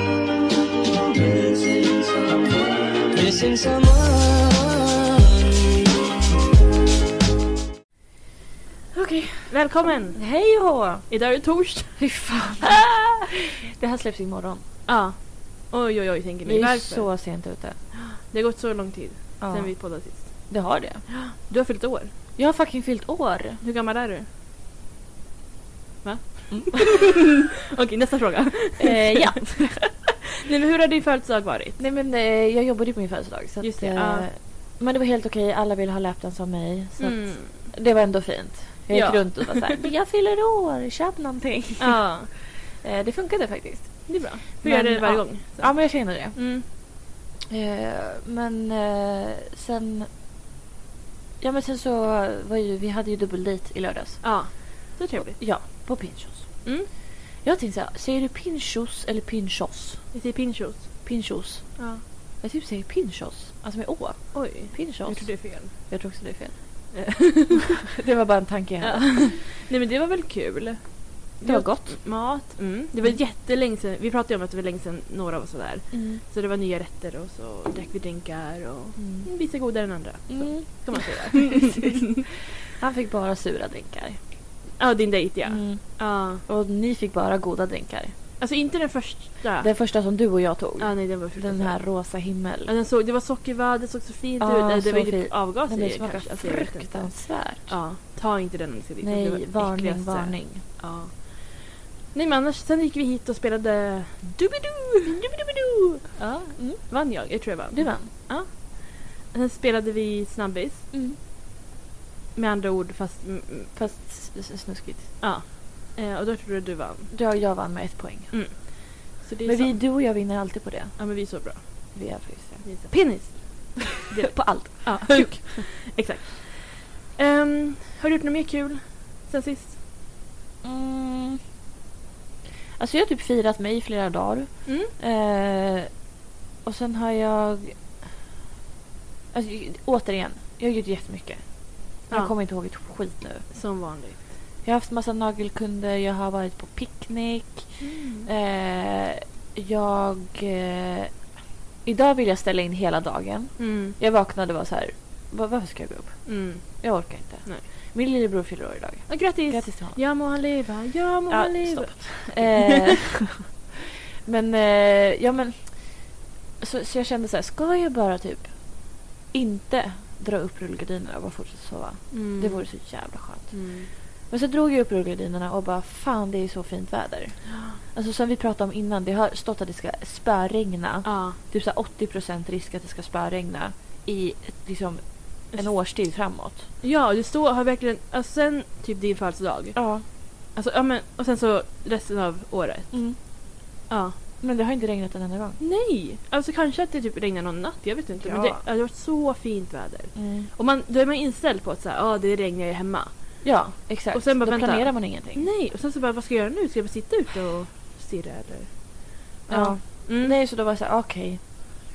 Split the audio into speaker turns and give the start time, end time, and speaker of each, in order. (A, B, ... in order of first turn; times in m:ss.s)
0:01.0-0:06.1 A
0:08.9-0:09.6 B
0:09.5-0:10.2 C
0:10.1-0:11.1 B
0:11.1-0:12.0 C
0:12.0-0:14.6 B
0:14.9-0:17.1 C
0:16.4-0:17.8 B
0:17.9-0:20.5 C
0:19.4-0:19.8 B
0:20.5-0:21.0 B
0:21.1-0:22.1 C
0:22.4-0:23.6 B
0:23.6-0:24.3 C
0:26.0-0:29.4 C
0:28.8-0:30.1 B
0:30.4-0:31.8 C
0:31.8-0:46.4 B
0:33.6-0:34.3 C
0:37.0-0:37.7 C
0:38.9-0:39.8 C
0:41.8-0:42.3 C
0:44.1-0:46.6 C
0:47.5-0:50.1 B
0:51.4-0:54.2 B
0:54.2-0:55.4 C
0:55.4-0:56.6 B
0:57.4-1:00.0 B
1:00.1-1:00.9 C
1:01.0-1:01.9 B
1:01.8-1:02.0 C
1:02.4-1:06.9 B
1:04.3-1:05.7 C
1:06.9-1:07.8 C
1:07.8-1:09.4 B
1:08.8-1:22.2 C
1:11.4-1:12.0 B
1:15.9-1:16.2 B
1:19.0-1:19.3 B
1:20.3-1:22.0 B
1:22.7-1:24.2 B
1:24.8-1:26.4 C
1:25.4-1:28.1 B
1:28.4-1:29.7 C
1:29.6-1:32.7 B
1:30.8-1:31.8 C
1:32.7-1:44.4 C
1:34.4-1:37.7 B
1:39.0-1:40.6 B
1:44.4-1:45.1 B
1:45.0-1:46.2 C
1:46.2-1:46.9 B
1:46.8-1:50.9 C
1:47.8-1:48.1 B
1:52.4-1:53.8 C
1:53.8-1:55.1 B
1:55.2-1:57.1 C
1:57.1-1:58.6 B
1:58.3-1:59.8 C
1:59.4-2:01.0 B
2:01.0-2:01.6 C
2:01.9-2:02.7 B
2:02.6-2:09.8 C
2:04.2-2:05.7 B
2:10.6-2:11.4 B
2:12.8-2:15.9 B
2:14.7-2:14.9 C
2:16.6-2:17.8 B
2:19.3-2:21.4 B
2:22.1-2:23.5 B
2:23.5-2:24.3 C
2:24.6-2:31.2 B
2:27.8-2:28.3 C
2:31.8-2:40.0 B
2:33.6-2:34.0 C
2:36.3-2:36.9 C
2:39.1-2:42.9 C
2:41.3-2:48.6 B
2:49.3-3:06.7 B
2:52.1-2:52.8 C
2:53.5-2:53.9 C
2:57.5-2:57.8 C
3:01.0-3:01.4 C
3:06.8-3:09.8 C
3:09.8-3:10.0 B
3:10.5-3:12.9 C
3:12.9-3:13.2 B
3:13.9-3:14.2 C
3:14.4-3:15.6 B
3:15.6-3:23.4 C
3:18.2-3:18.6 B
3:20.2-3:20.5 B
3:23.4-3:25.5 B
3:24.1-3:28.9 C
3:29.5-3:30.4 C
3:29.5-3:31.5 B